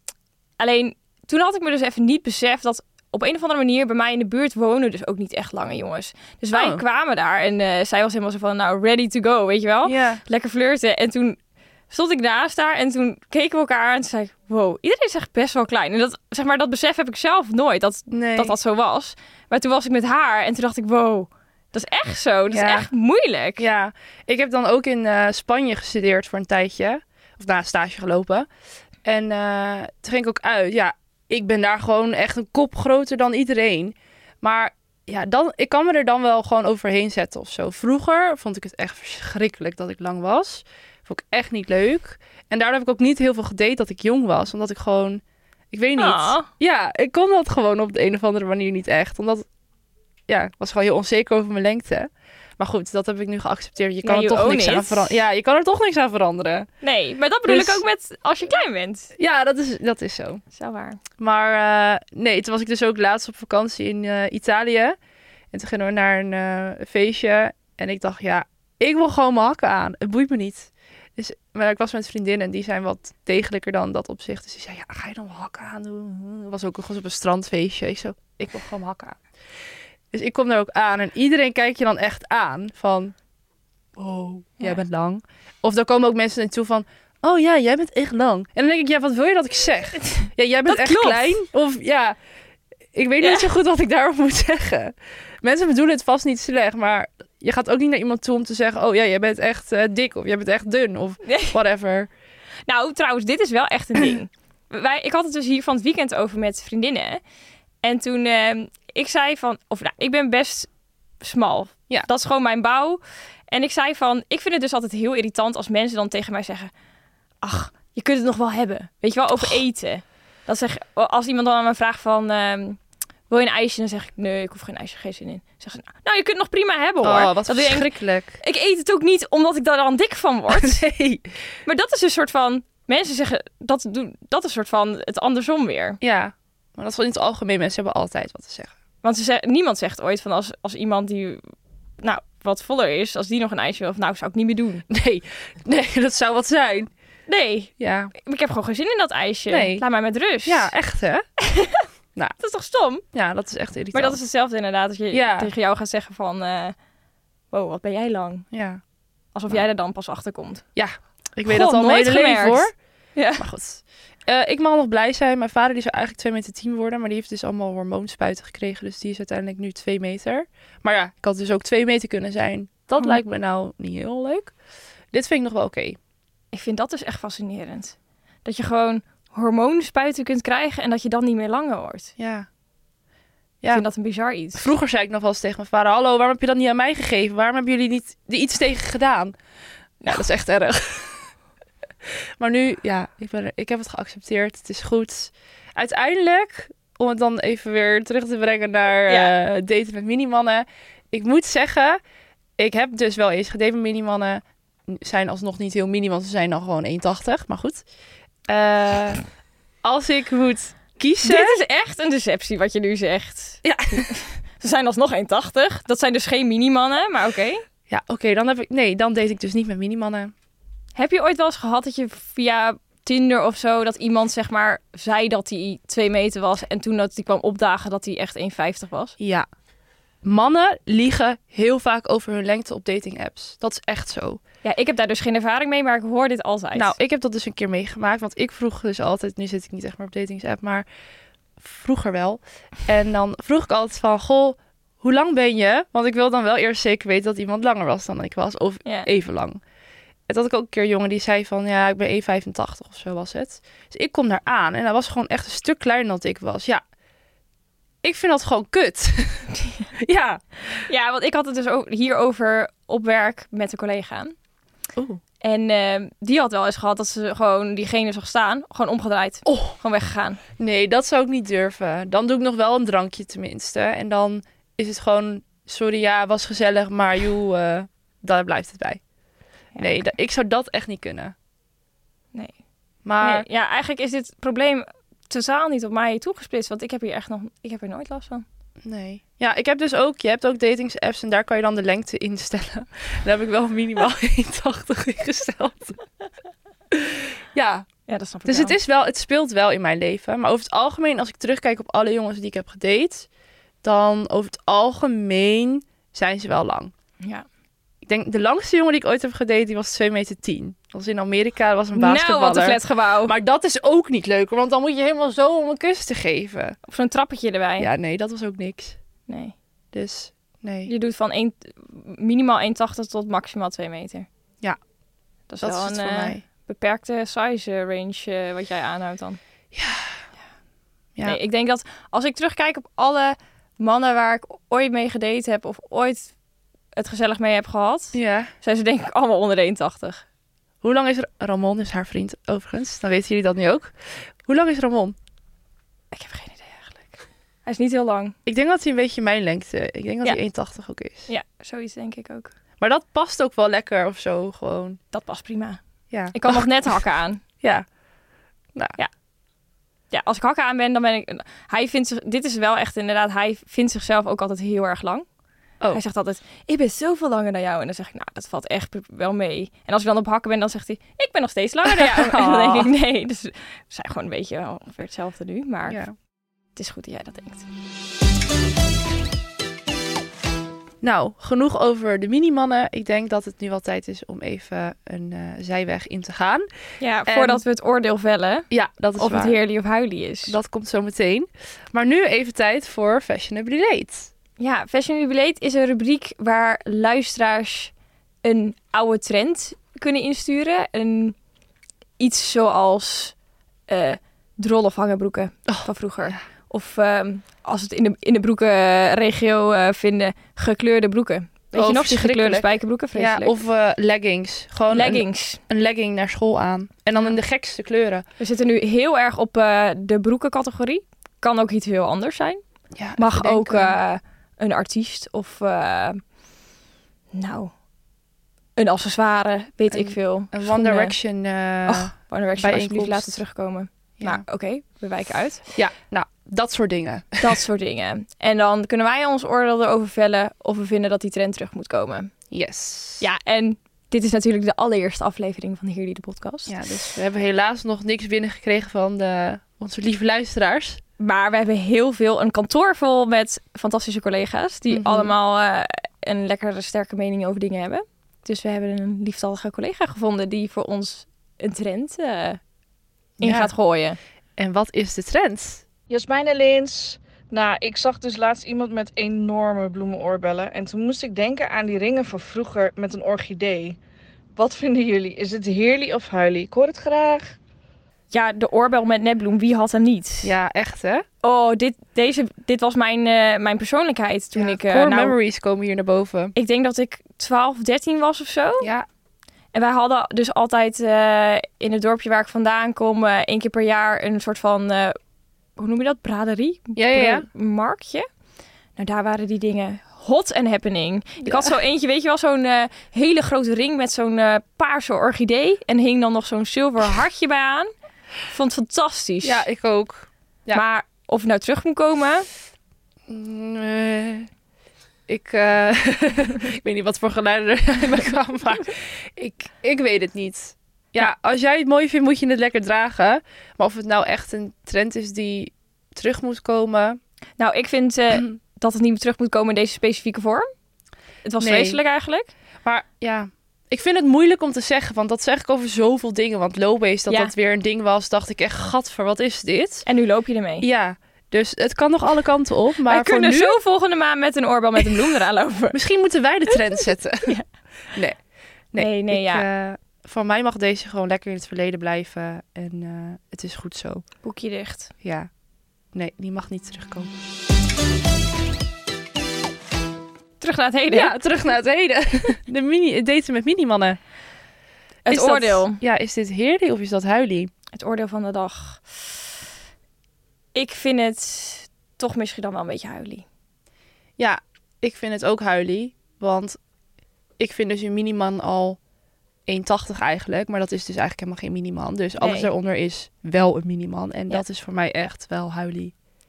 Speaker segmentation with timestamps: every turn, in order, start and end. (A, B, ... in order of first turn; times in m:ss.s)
0:00.6-0:11.4 A
0:06.5-0:06.8 B
0:09.8-0:10.2 B
0:11.9-0:23.6 A
0:18.1-0:18.6 B
0:22.5-0:22.9 B
0:23.6-0:28.5 B
0:29.0-0:49.4 B
0:46.0-0:46.5 A
0:50.3-0:56.7 B
0:54.0-0:55.1 A
0:56.8-0:59.1 A
0:57.4-0:57.8 B
0:59.2-1:00.4 B
1:00.5-1:01.0 A
1:01.2-1:05.0 B
1:05.5-1:19.2 B
1:20.1-1:23.1 B
1:24.0-1:32.2 B
1:30.2-1:31.4 A
1:32.9-1:42.1 B
1:33.2-1:33.5 A
1:41.2-1:41.6 A
1:42.7-1:47.2 A
1:47.8-1:50.7 A
1:51.2-1:56.7 A
1:57.4-2:02.8 A
2:03.3-2:07.9 A
2:07.0-2:08.4 B
2:08.4-2:10.8 A
2:10.5-2:11.3 B
2:11.6-2:16.0 A
2:16.0-2:18.7 B
2:19.0-2:21.4 A
2:22.0-2:24.8 A
2:24.9-2:26.9 B
2:27.3-2:30.7 A
2:27.8-2:28.1 B
2:29.5-2:29.8 B
2:30.4-2:31.2 B
2:31.4-2:31.8 A
2:32.4-2:33.0 A
2:33.1-2:34.2 B
2:33.9-2:36.7 A
2:35.1-2:35.5 B
2:37.5-2:38.4 A
2:38.5-2:38.8 B
2:39.3-2:40.6 A
2:40.8-2:42.7 B
2:41.5-2:43.4 A
2:43.4-2:54.5 B
2:55.1-2:56.0 B
2:56.5-3:02.1 A
3:02.2-3:02.5 B
3:03.7-3:04.7 A
3:04.6-3:09.3 B
3:10.0-3:11.3 B
3:12.0-3:22.0 B
3:19.1-3:19.3 A
3:22.6-3:27.8 B
3:28.5-3:29.2 B
3:29.8-3:31.6 B
3:31.2-3:37.6 A
3:33.6-3:34.1 B
3:37.9-3:40.3 B
3:41.0-3:49.1 A
3:49.2-3:49.5 B
3:50.2-3:54.4 B
3:54.6-3:56.9 A
3:56.7-4:00.8 B
4:01.6-4:09.6 B
4:10.3-4:16.8 B
4:18.0-4:20.8 B
4:20.7-4:24.3 A
4:25.0-4:25.2 B
4:25.4-4:30.4 A
4:29.4-4:29.8 B
4:30.6-4:39.0 B
4:39.8-4:40.0 A
4:39.8-4:41.3 B
4:43.0-4:43.4 B
4:43.2-4:48.4 A
4:48.8-4:56.0 B
4:56.9-4:57.8 B
4:58.1-4:58.8 A
4:58.4-5:03.3 B
5:03.8-5:06.9 B
5:08.0-5:16.8 B
5:11.9-5:13.3 A
5:16.9-5:17.9 A
5:17.8-5:19.0 B
5:19.3-5:19.5 A
5:19.9-5:20.9 B
5:20.9-5:24.3 A
5:25.5-5:29.4 A
5:25.6-5:26.4 B
5:29.7-5:30.2 B
5:31.2-5:36.3 A
5:36.9-5:40.2 A
5:38.1-5:38.5 B
5:40.8-5:43.9 B
5:44.4-5:45.2 B
5:46.1-5:48.3 A
5:48.4-5:51.3 B
5:51.3-5:52.5 A
5:52.8-5:55.0 B
5:55.1-5:55.8 A
5:56.1-5:56.7 B
5:56.3-5:57.4 A
6:00.1-6:05.2 A
6:05.9-6:16.0 A
6:11.8-6:12.9 B
6:15.9-6:16.1 B
6:16.8-6:17.6 A
6:21.0-6:26.7 B
6:27.0-6:30.6 A
6:27.3-6:27.6 B
6:28.7-6:29.6 B
6:30.5-6:34.3 B
6:34.6-6:37.9 A
6:38.4-6:41.4 A
6:42.2-6:43.3 A
6:43.9-6:53.6 A
6:45.7-6:46.4 B
6:51.7-6:58.2 B
6:54.9-6:55.6 A
6:58.4-7:02.6 A
7:02.9-7:04.0 B
7:03.2-7:06.2 A
7:07.3-7:07.7 A
7:08.8-7:11.1 A
7:09.9-7:13.3 B
7:11.8-7:15.6 A
7:15.7-7:17.5 B
7:17.4-7:22.3 A
7:22.5-7:23.2 B
7:23.2-7:26.8 A
7:26.7-7:31.0 B
7:31.2-7:42.6 A
7:34.9-7:35.3 B
7:43.4-7:43.7 B
7:43.4-7:44.2 A
7:44.6-7:45.8 B
7:46.1-7:54.0 C
7:54.6-7:57.5 C
7:58.3-8:00.5 A
8:00.4-8:01.2 B
8:01.4-8:05.3 A
8:04.5-8:06.5 B
8:06.5-8:08.9 A
8:08.8-8:09.0 B
8:09.7-8:15.2 A
8:15.8-8:18.3 A
8:17.0-8:17.4 B
8:19.0-8:27.9 A
8:21.4-8:21.7 B
8:28.4-8:29.6 A
8:29.4-8:30.8 B
8:30.7-8:32.5 A
8:33.3-8:34.5 B
8:35.3-8:47.2 B
8:47.6-8:50.7 A
8:51.4-8:52.5 A
8:51.6-8:52.0 B
8:52.8-9:00.0 B
9:00.0-9:00.8 A
9:00.8-9:03.8 B
9:03.1-9:06.0 A
9:05.9-9:07.5 B
9:06.7-9:07.6 A
9:08.1-9:08.4 B
9:08.9-9:14.2 B
9:09.0-9:09.6 A
9:14.4-9:15.1 A
9:15.2-9:15.5 B
9:16.1-9:17.3 B
9:20.6-9:21.3 A
9:21.1-9:24.2 B
9:25.2-9:27.7 B
9:25.2-9:26.0 A
9:27.9-9:29.4 A
9:30.7-9:33.4 A
9:34.4-9:36.8 B
9:37.6-9:39.0 B
9:39.7-9:46.1 B
9:42.4-9:42.7 A